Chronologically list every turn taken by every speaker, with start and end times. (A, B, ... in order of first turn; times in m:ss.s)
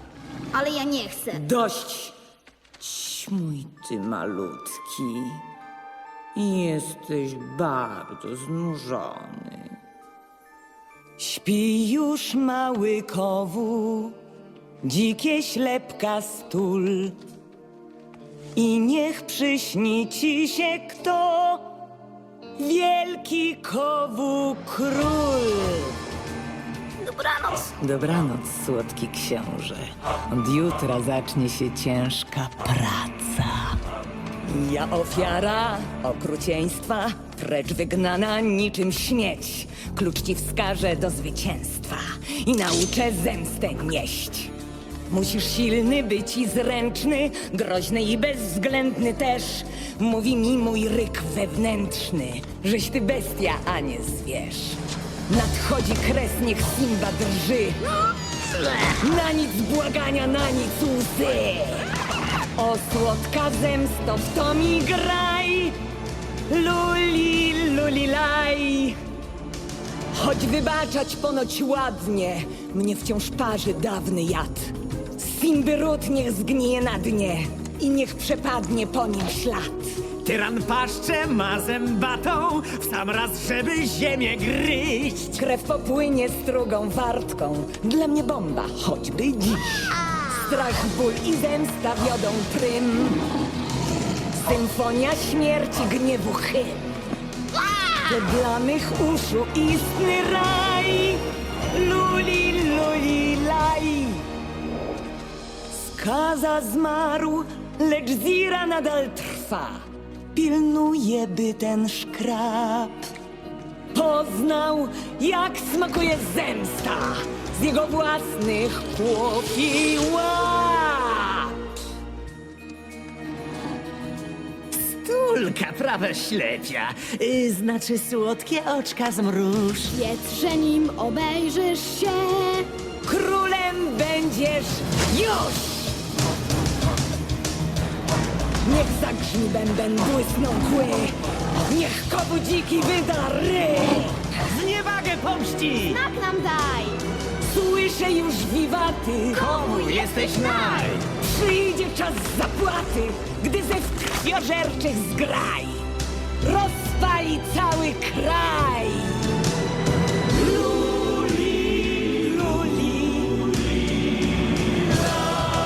0:00.5-0:01.4 A
0:01.3-0:02.2 B
0:02.8-0:05.5 B
0:06.4-0:09.8 B
0:11.2-0:14.2 B
0:14.8-0:17.2 B
0:18.6-0:21.7 B
0:22.6-0:26.0 B
0:27.5-0:33.8 B
0:34.4-0:44.5 B
0:45.1-0:58.0 B
0:58.8-1:01.9 B
1:02.6-1:05.8 B
1:06.5-1:09.0 B
1:10.1-1:20.1 B
1:20.2-1:25.4 C
1:25.3-1:33.2 B
1:34.3-1:37.0 B
1:37.9-1:44.3 B
1:45.7-1:53.0 B
1:53.9-2:01.7 B
2:04.7-2:10.0 C
2:09.9-2:12.7 A
2:13.0-2:16.0 B
2:18.6-2:24.3 B
2:24.4-2:26.0 C
2:25.9-2:27.0 A
2:27.4-2:29.9 B
2:29.4-2:31.0 A
2:29.7-2:31.1 C
2:31.1-2:35.9 B
2:36.4-2:39.4 B
2:40.3-2:43.8 B